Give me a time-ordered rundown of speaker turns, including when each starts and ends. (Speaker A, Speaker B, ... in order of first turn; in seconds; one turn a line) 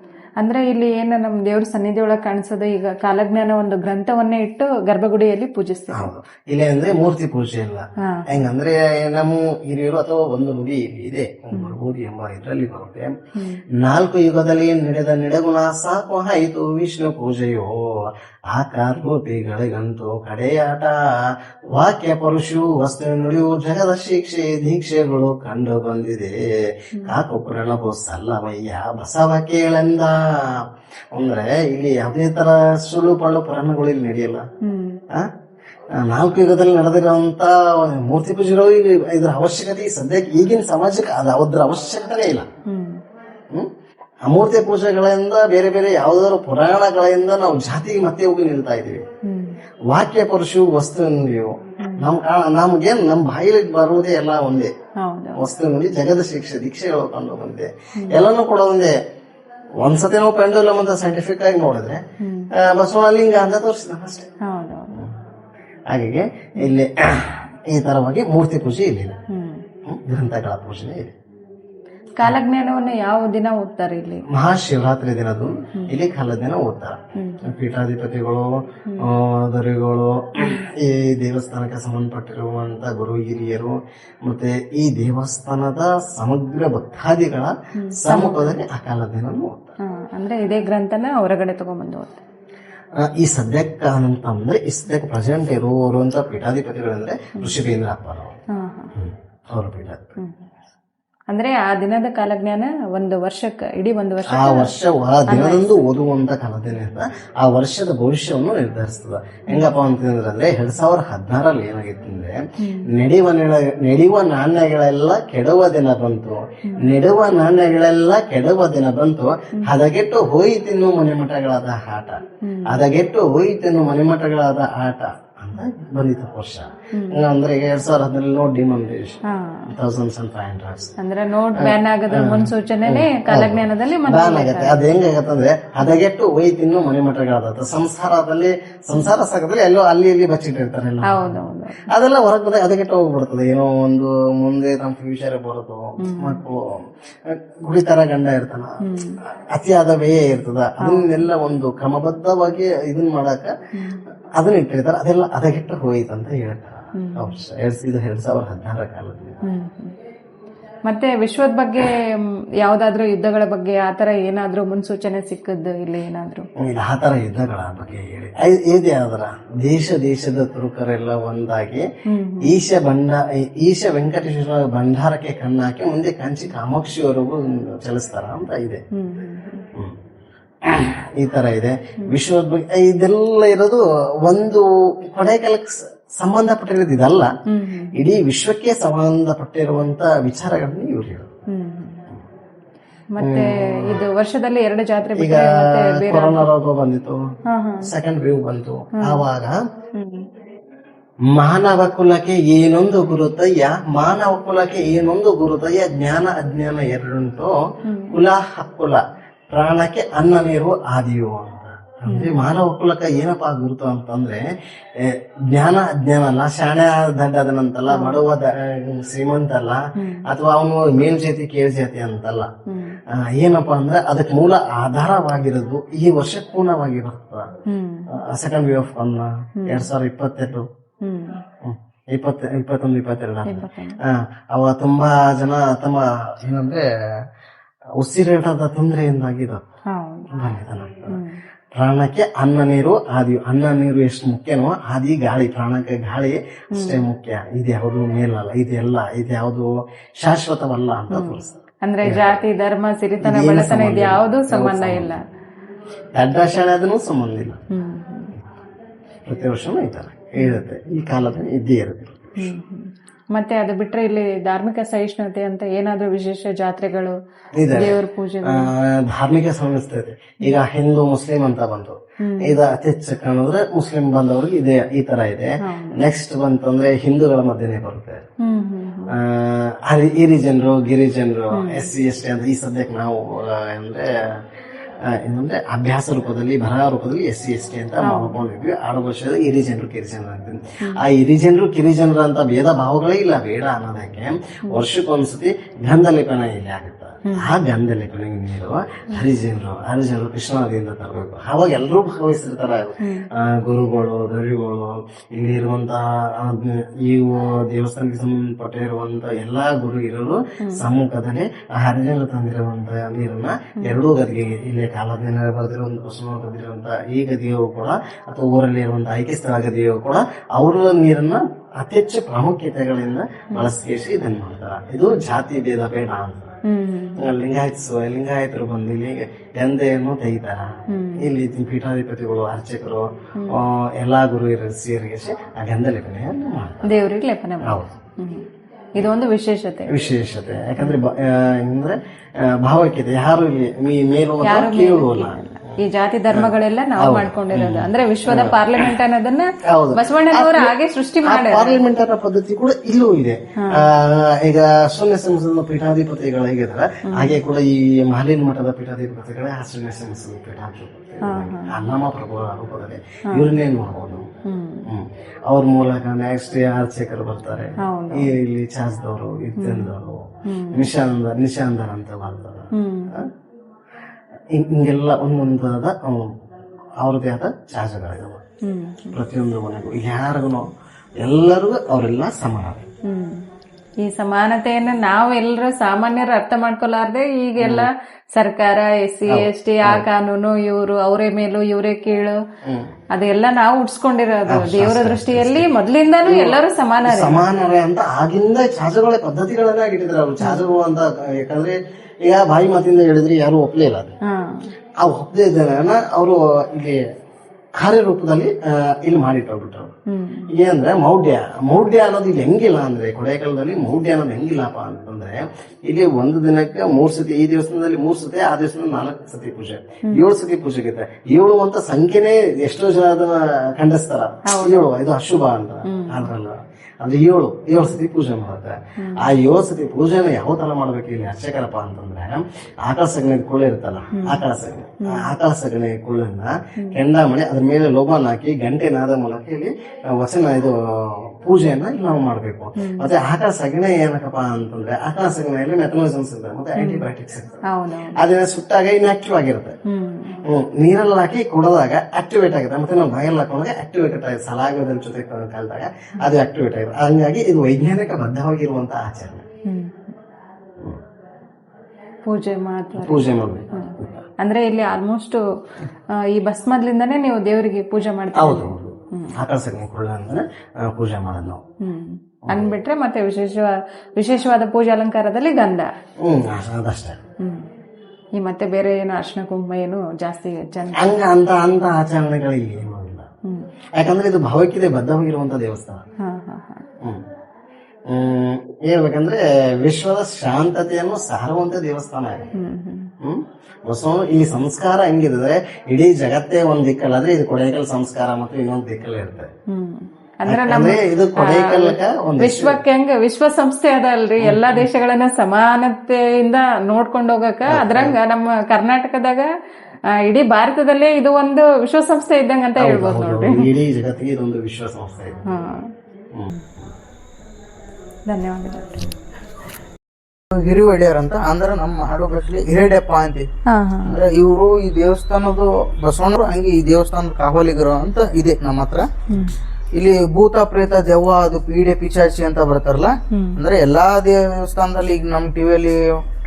Speaker A: 0.4-6.1
Speaker B: 5.9-13.2
Speaker A: 8.0-8.4
Speaker B: 13.8-34.4
Speaker A: 34.6-35.0
Speaker B: 36.0-42.5
Speaker A: 42.7-43.0
Speaker B: 44.3-49.0
Speaker A: 49.2-49.5
Speaker B: 49.9-54.7
Speaker A: 51.8-52.1
Speaker A: 55.0-55.5
Speaker B: 55.4-59.0
Speaker A: 58.0-58.2
Speaker B: 59.8-62.0
Speaker A: 62.2-62.5
Speaker B: 62.5-64.3
Speaker A: 64.5-64.9
Speaker B: 65.9-69.2
Speaker A: 69.3-69.6
Speaker B: 69.9-71.1
Speaker A: 72.2-74.2
Speaker B: 74.3-89.7
Speaker A: 77.2-77.5
Speaker A: 87.8-88.5
Speaker A: 89.9-92.2
Speaker B: 93.0-98.3
Speaker A: 98.5-98.9
Speaker B: 99.0-100.2
Speaker A: 101.3-104.7
Speaker B: 104.3-130.9
Speaker A: 105.3-105.8
Speaker A: 112.6-112.9
Speaker A: 122.4-122.8
Speaker A: 126.9-127.2
Speaker A: 129.3-129.7
Speaker A: 131.0-134.8
Speaker B: 131.6-146.6
Speaker A: 141.1-141.9
Speaker A: 146.0-146.4
Speaker B: 147.2-148.8
Speaker A: 148.8-149.2
Speaker B: 149.5-153.5
Speaker A: 150.8-151.2
Speaker B: 154.4-159.4
Speaker A: 156.9-157.4
Speaker A: 159.4-159.9
Speaker A: 160.8-162.0
Speaker A: 162.6-166.4
Speaker B: 166.6-171.8
Speaker A: 172.1-172.6
Speaker B: 172.4-178.8
Speaker A: 178.9-179.7
Speaker B: 180.6-187.3
Speaker A: 187.5-187.9
Speaker B: 187.9-191.3
Speaker A: 191.5-192.0
Speaker A: 193.1-196.5
Speaker B: 193.2-194.0
Speaker B: 195.2-197.2
Speaker A: 197.5-197.9
Speaker B: 197.8-199.6
Speaker A: 199.9-200.3
Speaker B: 201.3-207.5
Speaker A: 207.9-208.2
Speaker B: 208.1-214.4
Speaker A: 212.1-212.4
Speaker B: 215.0-222.5
Speaker A: 217.9-218.2
Speaker A: 220.0-220.2
Speaker A: 222.7-223.0
Speaker B: 223.1-227.5
Speaker A: 227.7-228.1
Speaker B: 228.1-230.7
Speaker A: 229.6-229.9
Speaker A: 231.0-231.4
Speaker B: 231.6-236.8
Speaker A: 233.4-234.0
Speaker B: 238.0-239.6
Speaker A: 239.9-240.3
Speaker B: 240.3-241.2
Speaker A: 241.1-241.4
Speaker B: 241.7-252.4
Speaker A: 246.7-247.0
Speaker A: 251.1-255.2
Speaker B: 253.2-255.2
Speaker B: 256.1-257.6
Speaker A: 257.7-258.3
Speaker B: 259.2-262.5
Speaker A: 262.4-267.1
Speaker B: 267.6-278.2
Speaker A: 267.7-268.7
Speaker A: 272.2-272.5
Speaker A: 275.6-276.0
Speaker A: 278.4-279.1
Speaker B: 279.1-284.1
Speaker A: 281.5-281.9
Speaker B: 285.1-326.5
Speaker A: 288.0-288.4
Speaker A: 303.0-303.3
Speaker A: 326.6-327.3
Speaker B: 327.2-336.9
Speaker A: 330.9-331.2
Speaker A: 336.9-338.4
Speaker B: 337.6-337.9
Speaker A: 339.0-339.9
Speaker B: 339.9-345.7
Speaker A: 344.4-351.8
Speaker B: 346.3-348.6
Speaker B: 349.6-364.3
Speaker A: 357.1-357.4
Speaker A: 361.2-361.7
Speaker A: 363.3-363.6
Speaker A: 364.4-364.9
Speaker B: 364.9-373.3
Speaker A: 367.8-368.3
Speaker A: 369.6-369.9
Speaker A: 370.4-370.9
Speaker A: 372.7-373.1
Speaker B: 374.5-376.3
Speaker B: 377.0-378.4
Speaker A: 378.6-379.2
Speaker B: 379.1-380.6
Speaker B: 381.2-382.9
Speaker A: 383.1-383.4
Speaker A: 384.0-392.4
Speaker B: 387.6-387.9
Speaker B: 389.3-390.1
Speaker B: 392.6-392.9
Speaker A: 393.1-397.4
Speaker B: 394.5-395.7
Speaker B: 396.2-404.1
Speaker A: 404.3-404.7
Speaker B: 405.0-407.0
Speaker B: 407.8-409.9
Speaker A: 410.1-410.5
Speaker B: 410.5-447.6
Speaker A: 424.5-424.8
Speaker A: 425.9-426.3
Speaker A: 429.0-429.3
Speaker A: 442.8-443.1
Speaker A: 446.8-447.0
Speaker A: 447.7-448.2
Speaker B: 448.2-449.8
Speaker A: 449.9-450.4
Speaker B: 450.4-459.4
Speaker A: 459.7-460.1
Speaker A: 462.2-463.3
Speaker B: 462.9-464.2
Speaker A: 463.8-465.4
Speaker A: 466.1-469.3
Speaker B: 468.3-471.6
Speaker A: 471.8-475.9
Speaker B: 472.5-472.7
Speaker B: 476.2-477.2
Speaker A: 477.4-477.6
Speaker A: 478.4-481.1
Speaker B: 480.9-483.3
Speaker B: 483.9-486.0
Speaker A: 486.2-486.8
Speaker B: 488.1-492.5
Speaker A: 492.6-493.1
Speaker B: 493.2-499.5
Speaker A: 499.7-509.5
Speaker B: 500.5-502.8
Speaker B: 504.4-504.8
Speaker B: 507.6-508.2
Speaker A: 510.2-513.7
Speaker B: 512.8-515.5
Speaker A: 515.5-515.9
Speaker B: 516.3-516.9
Speaker A: 518.3-519.0
Speaker C: 520.5-523.5
Speaker A: 523.7-524.2
Speaker C: 524.0-529.1
Speaker A: 529.3-529.5
Speaker C: 530.0-536.1
Speaker A: 533.3-533.6